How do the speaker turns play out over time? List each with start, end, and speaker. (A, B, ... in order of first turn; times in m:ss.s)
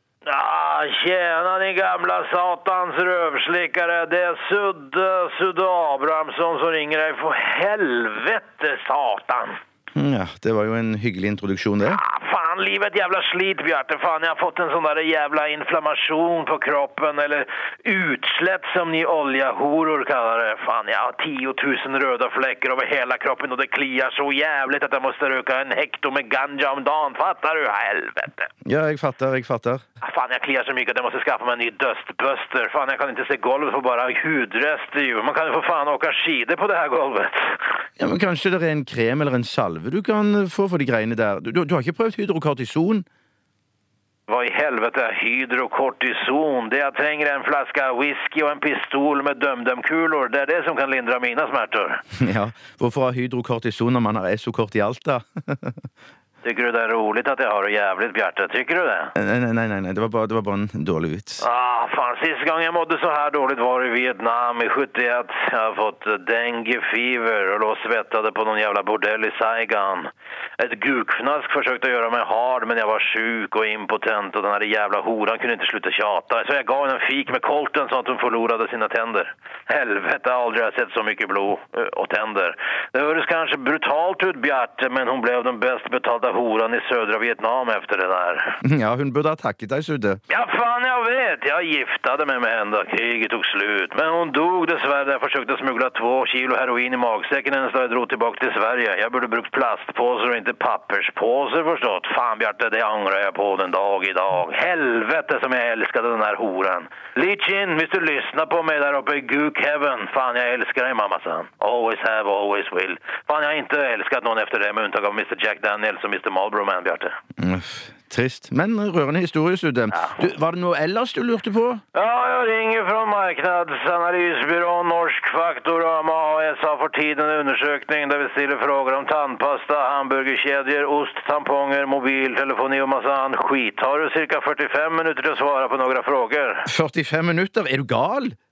0:00.2-0:09.6 A
0:09.9-0:12.0 B
0:11.8-0:28.5 A
0:28.6-0:29.8 B
0:30.0-0:37.6 A
0:38.0-0:43.0 B
0:44.3-0:52.0 A
0:52.2-0:55.8 B
0:56.4-0:59.1 A
0:59.2-1:01.4 B
1:01.4-1:28.6 A
1:28.6-1:30.2 B
1:30.3-1:57.2 A
1:57.4-2:01.8 B
2:01.9-2:16.7 A
2:16.7-2:18.4 B